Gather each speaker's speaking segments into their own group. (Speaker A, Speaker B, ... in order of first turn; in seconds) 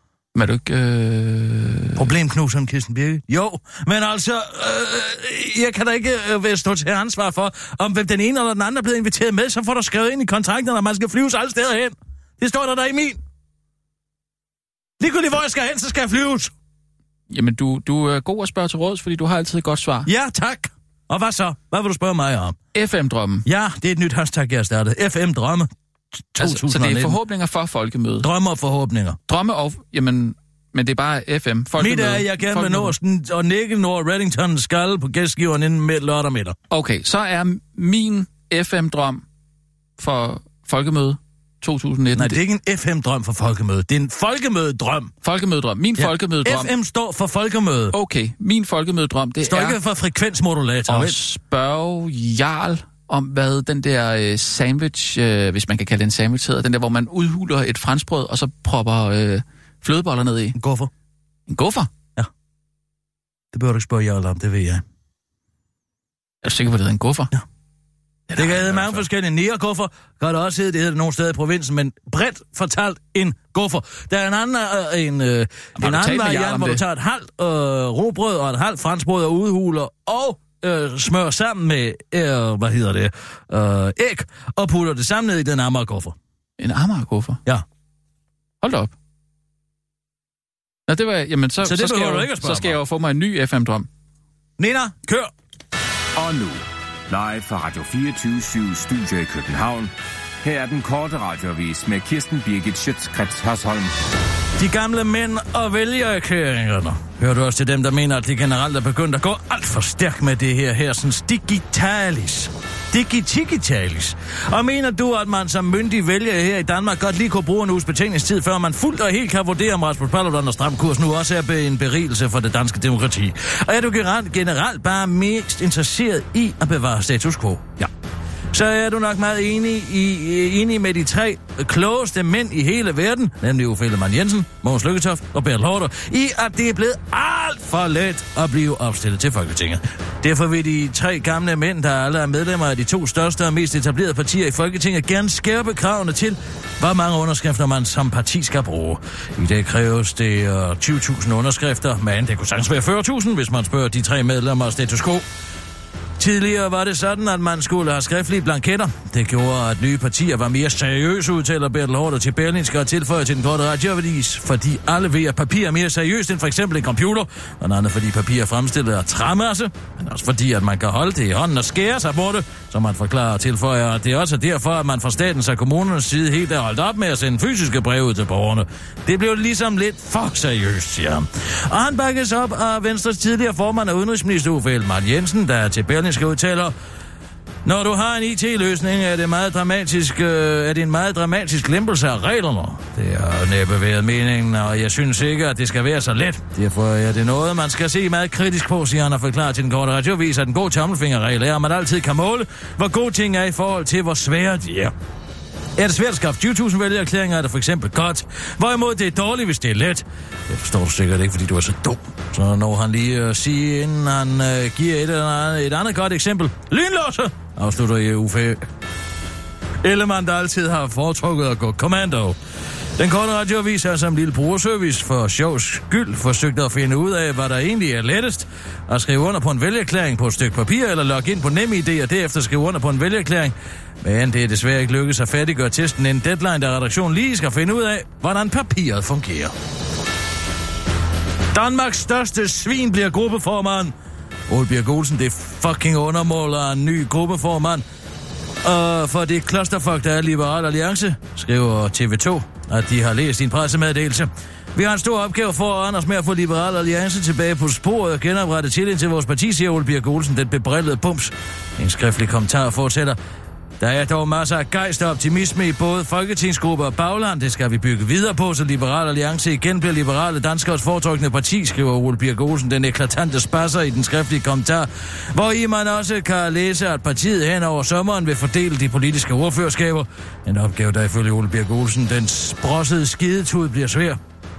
Speaker A: 0.3-2.0, 17.3-20.1, 22.8-23.5, 26.4-28.3, 29.3-33.0, 36.7-39.2, 40.0-42.4, 45.2-46.7, 47.9-49.8, 50.9-60.6, 61.5-61.9, 66.4-67.3, 68.3-69.1, 75.8-76.8, 86.6-87.4, 88.6-88.9, 90.9-93.9
Speaker B: 2.0-13.2, 15.0-16.5, 20.1-22.6, 23.5-25.7, 26.4-27.2, 28.2-29.2, 31.8-36.6, 42.1-45.1, 46.0-48.0, 49.4-51.2, 60.6-60.9, 63.5-64.8, 68.4-86.2, 91.6-92.8, 94.6-95.3, 104.6-127.9, 128.5-155.2, 156.2-186.7, 187.7-204.9, 205.8-218.6, 219.8-222.4, 223.0-239.5, 241.5-243.9, 244.5-247.8, 248.6-263.2, 263.8-284.2
Speaker C: 96.2-99.9, 100.4-103.9